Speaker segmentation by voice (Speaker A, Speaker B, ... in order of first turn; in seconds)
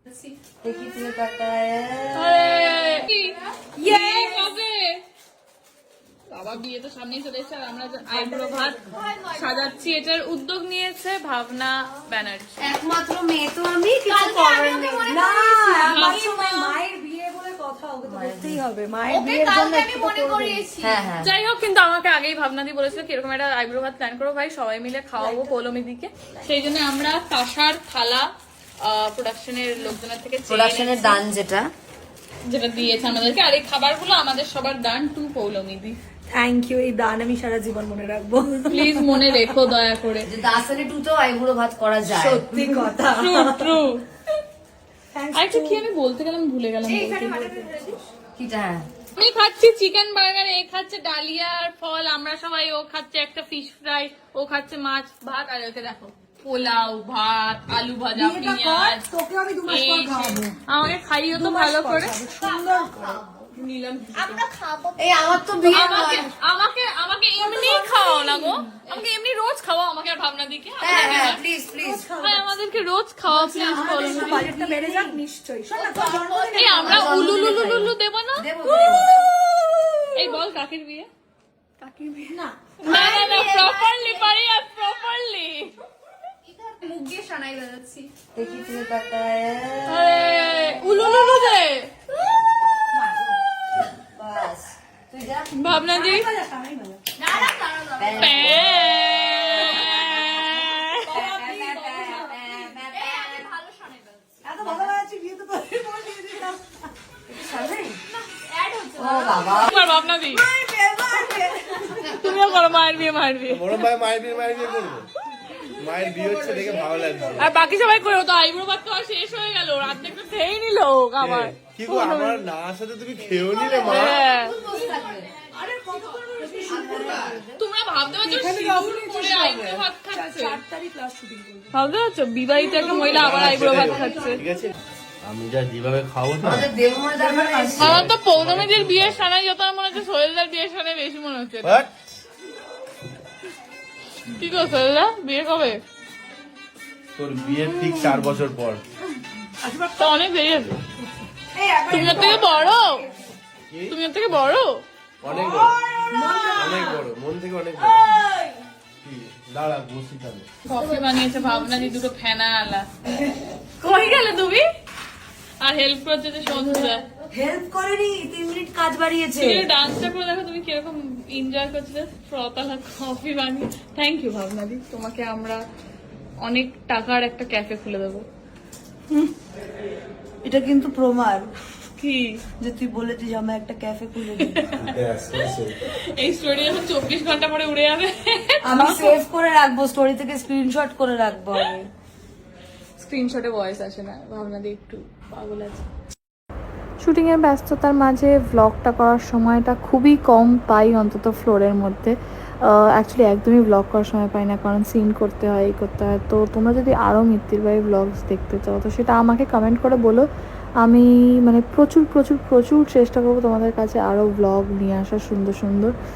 Speaker A: 0.6-2.7, 12.6-15.8, 18.0-18.6, 20.8-21.3, 30.5-31.7, 40.2-42.9, 48.4-48.9, 65.0-66.3, 70.8-72.1, 73.8-75.2, 76.6-79.0, 88.3-91.2, 93.8-95.5, 97.3-98.8, 99.7-103.5, 104.6-104.9, 107.3-108.0, 109.0-109.7, 123.5-125.3, 126.6-127.6, 136.4-138.0, 167.4-168.5, 169.1-169.5, 188.8-189.2
Speaker B: 2.1-5.0, 6.3-12.7, 15.8-16.8, 21.2-28.2, 28.8-31.2, 32.5-36.0, 38.5-40.3, 43.1-44.0, 45.3-47.5, 49.1-59.0, 59.6-62.2, 63.5-64.4, 65.7-71.4, 72.2-74.5, 76.5-79.3, 80.1-81.1, 82.8-85.7, 89.9-91.9, 95.5-96.3, 97.3-102.1, 102.9-104.2, 108.5-110.4, 112.0-113.9, 117.4-122.5, 123.8-124.6, 127.5-130.6, 131.7-134.4, 137.8-141.8, 144.3-145.8, 149.9-150.8, 151.9-153.1, 153.9-154.8, 160.6-162.8, 163.8-164.6, 165.6-167.1, 169.4-175.6, 176.4-178.2, 182.0-182.4, 184.3-189.1, 193.0-195.8
Speaker C: 3.8-4.5, 8.1-9.1, 14.9-20.7, 36.3-39.4, 42.1-43.7, 45.1-45.8, 46.8-48.0, 58.1-60.5, 61.3-63.6, 65.7-66.3, 67.3-68.7, 70.9-72.5, 73.3-77.1, 82.2-83.2, 92.9-93.2, 95.8-97.0, 101.1-102.6, 104.4-106.9, 110.3-112.2, 116.0-117.5, 125.4-127.4, 128.2-131.7, 132.5-134.4, 137.1-138.0, 149.6-150.1, 151.5-153.1, 155.2-157.1, 158.0-158.3, 168.2-169.4, 180.4-181.5, 182.6-184.6, 188.6-191.8
Speaker D: 9.0-9.5, 14.5-15.1, 19.2-20.9, 64.2-64.9, 75.8-76.4, 83.2-84.1, 86.6-87.8
Speaker E: 113.5-115.1, 115.8-117.5, 121.2-124.3, 133.0-134.7, 135.2-136.7, 137.8-139.3, 141.6-141.9, 147.2-148.8, 155.2-155.8, 156.5-158.1, 159.0-160.4, 184.8-185.7
Speaker F: 197.0-210.2, 210.8-215.9